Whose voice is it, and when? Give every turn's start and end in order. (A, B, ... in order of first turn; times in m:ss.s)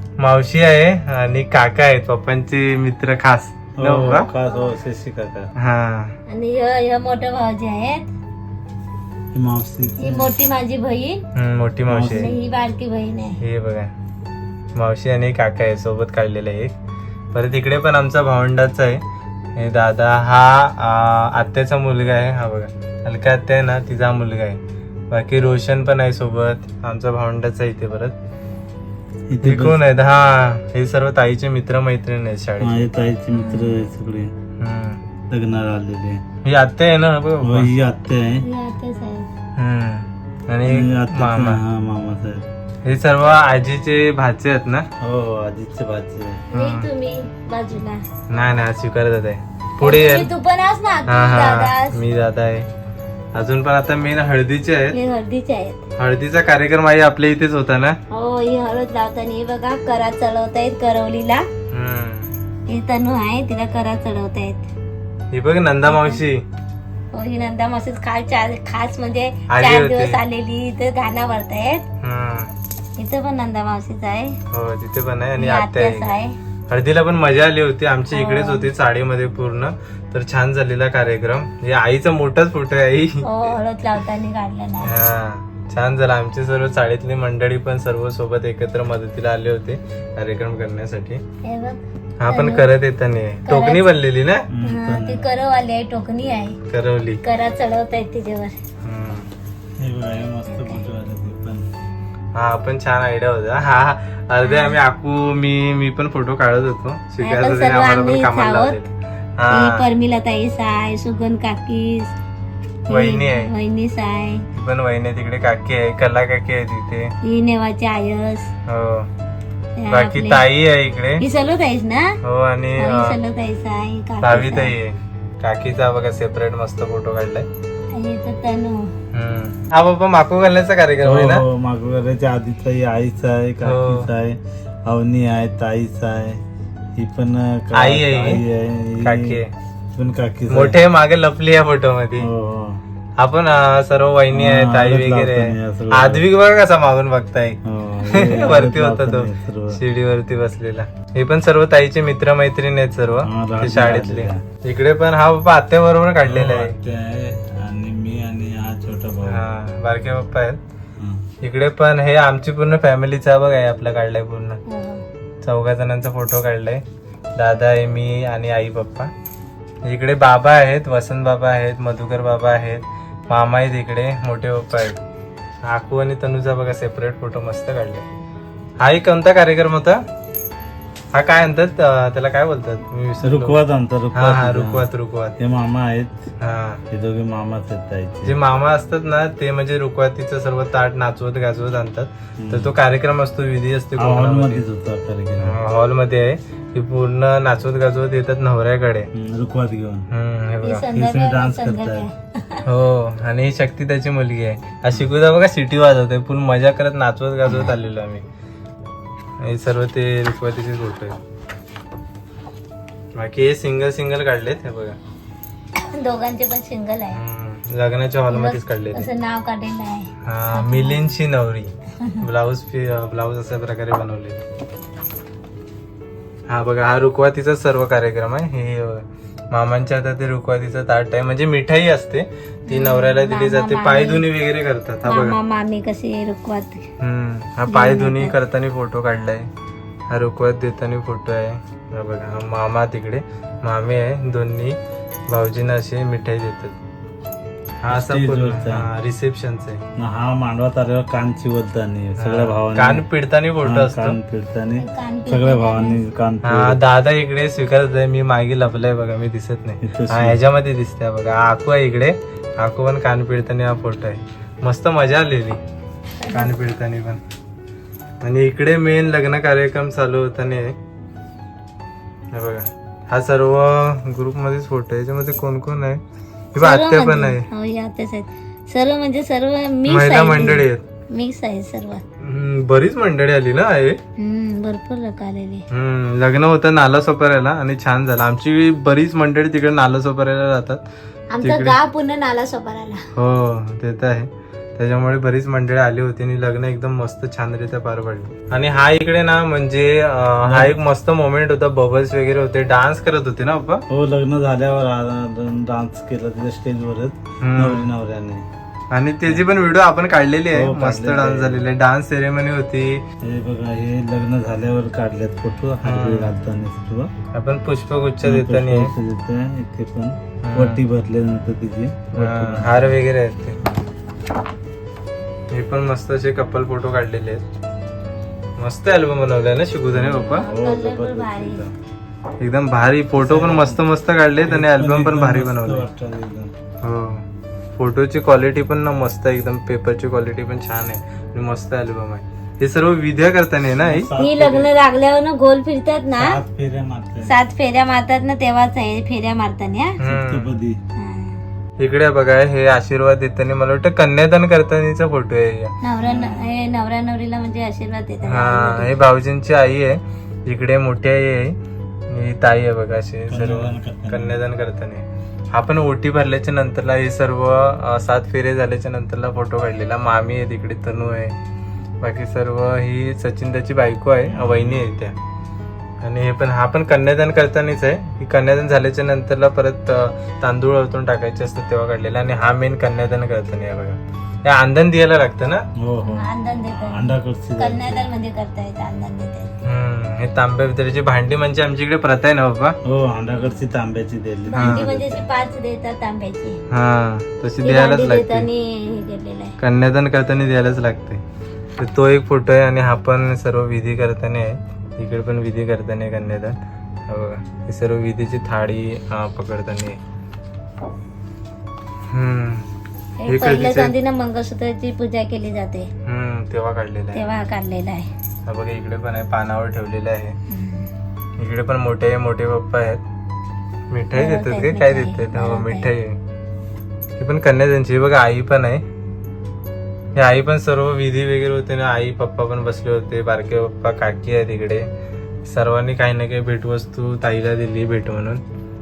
0:00.2-0:04.3 A
0:03.8-0:05.5 B
0:04.0-0:04.7 C
0:05.6-0:06.1 A
0:06.3-0:08.1 C
0:09.3-0:10.3 B
0:10.0-0:11.2 C
0:11.4-0:12.3 A
0:11.9-0:12.4 B
0:12.1-0:13.4 C
0:13.4-0:13.9 A
0:14.8-0:16.7 A
0:17.3-0:19.0 A
0:19.6-0:24.6 A
0:25.1-0:28.2 A
0:29.3-0:29.8 B
0:29.4-0:32.9 A
0:32.6-0:34.3 B
0:33.3-0:33.8 C
0:34.6-0:35.0 A
0:35.3-0:36.2 B
0:36.4-0:37.7 A
0:37.4-0:38.5 B
0:38.4-0:39.3 C
0:39.6-0:41.6 A
0:40.7-0:42.4 B
0:42.8-0:44.9 A
0:45.0-0:46.4 B
0:46.5-0:48.0 C
0:46.5-0:46.9 A
0:48.3-0:50.3 A
0:49.8-0:52.0 C
0:51.1-0:52.7 A
0:53.4-0:55.0 A
0:54.9-0:55.8 C
0:56.0-0:58.0 A
0:58.1-1:01.5 C
1:01.7-1:02.3 A
1:02.7-1:04.7 C
1:05.3-1:06.4 A
1:05.9-1:06.2 C
1:07.1-1:11.8 C
1:09.5-1:10.2 A
1:12.0-1:12.5 A
1:13.0-1:14.4 C
1:14.5-1:16.1 A
1:15.4-1:16.4 C
1:16.7-1:23.2 A
1:18.1-1:18.7 C
1:23.2-1:25.0 C
1:24.8-1:31.2 A
1:31.4-1:32.7 C
1:32.2-1:34.5 A
1:33.5-1:33.9 C
1:34.5-1:35.2 B
1:34.6-1:36.6 C
1:36.7-1:37.2 A
1:37.2-1:38.6 C
1:38.8-1:39.3 A
1:39.8-1:41.7 B
1:40.5-1:40.8 C
1:42.4-1:49.8 A
1:44.4-1:44.8 C
1:47.2-1:48.8 C
1:49.5-1:52.1 C
1:52.9-1:53.5 A
1:52.9-1:54.5 C
1:54.5-1:57.1 A
1:57.2-1:58.5 C
1:58.7-1:59.1 A
1:59.8-2:00.4 C
1:59.9-2:01.2 A
2:01.2-2:02.2 C
2:02.2-2:03.2 A
2:02.8-2:04.7 C
2:04.2-2:07.5 A
2:07.9-2:08.9 C
2:09.1-2:11.4 A
2:11.0-2:16.4 B
2:13.6-2:14.1 A
2:17.0-2:19.4 B
2:17.7-2:18.4 A
2:19.0-2:19.5 A
2:19.9-2:20.8 B
2:20.5-2:22.3 A
2:22.2-2:22.8 B
2:23.2-2:36.8 A
2:24.3-2:26.2 B
2:27.6-2:29.8 B
2:33.2-2:34.4 B
2:36.2-2:39.4 B
2:39.3-2:40.6 A
2:41.0-2:41.2 B
2:41.4-2:44.6 A
2:44.7-2:45.0 C
2:45.4-2:46.8 A
2:47.4-2:49.1 A
2:49.8-2:55.0 A
2:55.6-2:58.1 A
2:58.8-3:00.0 A
3:01.1-3:03.6 A
3:03.2-3:04.8 B
3:04.1-3:05.4 A
3:05.4-3:06.2 B
3:06.4-3:06.8 A
3:06.9-3:08.4 B
3:08.2-3:14.6 A
3:12.4-3:12.7 B
3:14.0-3:15.6 B
3:15.4-3:19.1 A
3:19.1-3:20.1 B
3:20.1-3:20.9 A
3:20.6-3:22.6 C
3:20.9-3:22.1 B
3:22.6-3:28.2 A
3:27.5-3:27.8 C
3:29.4-3:31.2 A
3:33.2-3:35.0 A
3:35.9-3:37.2 C
3:37.1-3:39.1 A
3:38.3-3:41.0 C
3:40.2-3:44.4 A
3:46.5-3:55.4 A
3:52.7-3:54.3 C
3:55.1-3:56.9 C
3:57.0-3:59.5 A
3:57.7-3:58.3 C
4:00.1-4:04.8 A
4:05.3-4:06.8 A
4:07.8-4:09.8 A
4:07.9-4:08.9 B
4:10.0-4:13.0 B
4:12.2-4:14.2 A
4:13.6-4:16.8 B
4:14.8-4:16.0 C
4:16.4-4:25.6 A
4:19.8-4:20.4 B
4:26.2-4:26.5 C
4:26.3-4:27.2 A
4:28.2-4:30.8 A
4:32.3-4:36.0 A
4:36.6-4:37.5 A
4:36.6-4:42.0 C
4:39.9-4:40.8 A
4:42.2-4:44.0 A
4:44.2-4:45.6 C
4:45.7-4:50.8 A
4:51.3-4:53.1 C
4:51.4-4:51.8 A
4:53.2-5:03.8 A
5:00.5-5:00.8 B
5:03.9-5:08.4 B
5:07.4-5:07.9 A
5:08.9-5:13.0 A
5:10.5-5:11.7 B
5:13.2-5:17.1 B
5:15.8-5:16.3 A
5:17.3-5:18.9 A
5:18.2-5:23.0 B
5:20.4-5:20.8 A
5:22.2-5:23.6 A
5:25.5-5:27.4 A
5:28.6-5:30.4 A
5:29.9-5:31.6 C
5:30.4-5:31.7 B
5:32.4-5:35.9 A
5:33.2-5:33.8 B
5:34.4-5:36.5 B
5:36.8-5:37.2 A
5:37.8-5:44.1 A
5:43.8-5:44.7 B
5:44.2-5:46.4 C
5:46.2-5:47.4 B
5:47.2-5:50.0 C
5:50.0-5:50.5 A
5:50.1-5:50.8 B
5:51.0-5:51.4 C
5:51.8-5:55.7 A
5:55.8-5:58.9 C
5:56.0-5:56.5 B
5:58.2-6:01.6 A
6:02.1-6:11.3 A
6:03.3-6:04.4 B
6:12.0-6:15.2 A
6:14.3-6:14.9 B
6:16.0-6:25.6 A
6:25.8-6:28.1 B
6:26.0-6:29.6 C
6:29.6-6:32.8 A
6:32.8-6:35.3 B
6:34.5-6:36.6 C
6:34.6-6:34.9 A
6:36.7-6:38.5 A
6:37.6-6:39.6 C
6:39.6-6:41.2 A
6:41.8-6:46.6 A
6:47.1-6:50.0 A
6:52.1-6:52.7 A
6:53.2-6:55.9 C
6:53.3-6:53.9 A
6:56.1-6:57.2 A
6:57.1-6:58.1 C
6:58.5-7:00.4 A
7:00.5-7:00.9 C
7:01.4-7:03.0 A
7:03.9-7:06.2 A
7:04.1-7:05.9 C
7:07.2-7:08.8 A
7:10.2-7:14.9 A
7:15.5-7:18.4 A